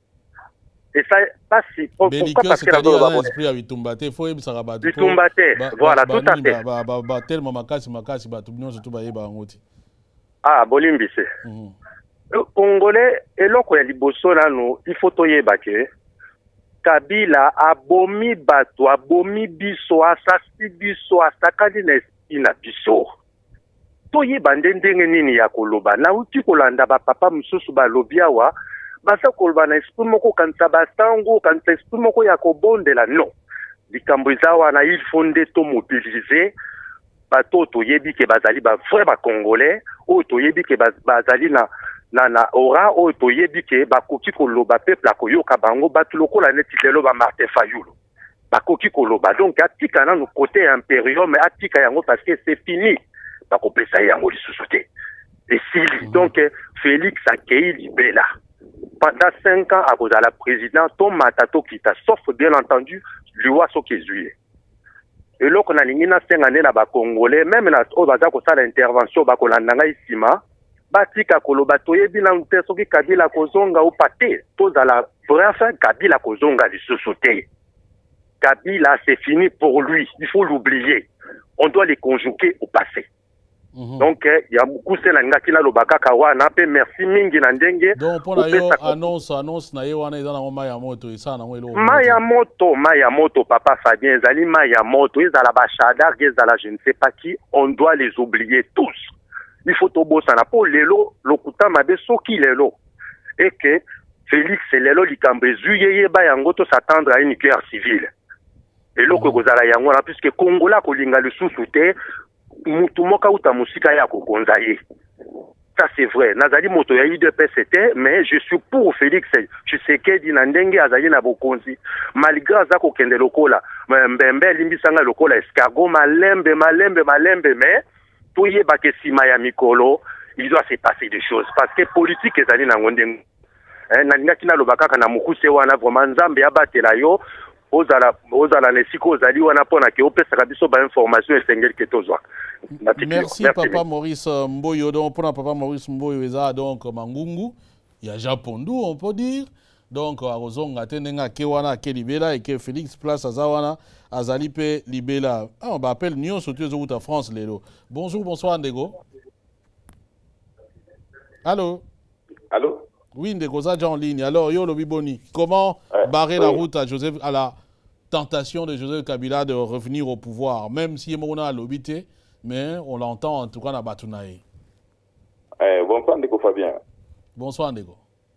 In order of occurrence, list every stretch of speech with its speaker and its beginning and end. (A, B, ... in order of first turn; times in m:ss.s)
0:00.9-0:03.3 A
0:02.1-0:09.6 B
0:04.8-0:06.6 A
0:10.4-0:11.3 A
0:11.4-0:11.7 B
0:12.3-0:15.9 A
0:16.8-0:23.1 A
0:24.1-0:28.5 A
0:29.0-0:33.3 A
0:33.9-0:36.5 A
0:37.3-0:47.9 A
0:48.5-0:53.0 A
0:53.5-0:54.9 A
0:55.5-0:58.3 A
0:56.0-0:56.3 B
0:59.0-1:04.3 A
1:05.4-1:10.4 A
1:10.9-1:17.4 A
1:18.4-1:21.0 A
1:21.6-1:23.0 A
1:23.7-1:24.1 B
1:24.0-1:28.9 A
1:28.0-1:32.2 B
1:31.7-1:39.1 A
1:39.6-1:42.7 A
1:43.4-1:48.1 A
1:49.0-1:51.9 A
1:49.1-1:49.4 B
1:52.7-1:54.8 A
1:55.8-2:07.8 A
2:08.4-2:13.2 A
2:13.9-2:17.2 A
2:17.7-2:22.2 A
2:22.8-2:23.8 A
2:23.0-2:39.0 B
2:41.4-2:41.8 B
2:42.5-2:42.8 C
2:43.1-2:47.5 B
2:45.9-2:46.6 C
2:48.1-2:54.4 B
2:55.6-2:56.8 C
2:57.4-2:58.0 B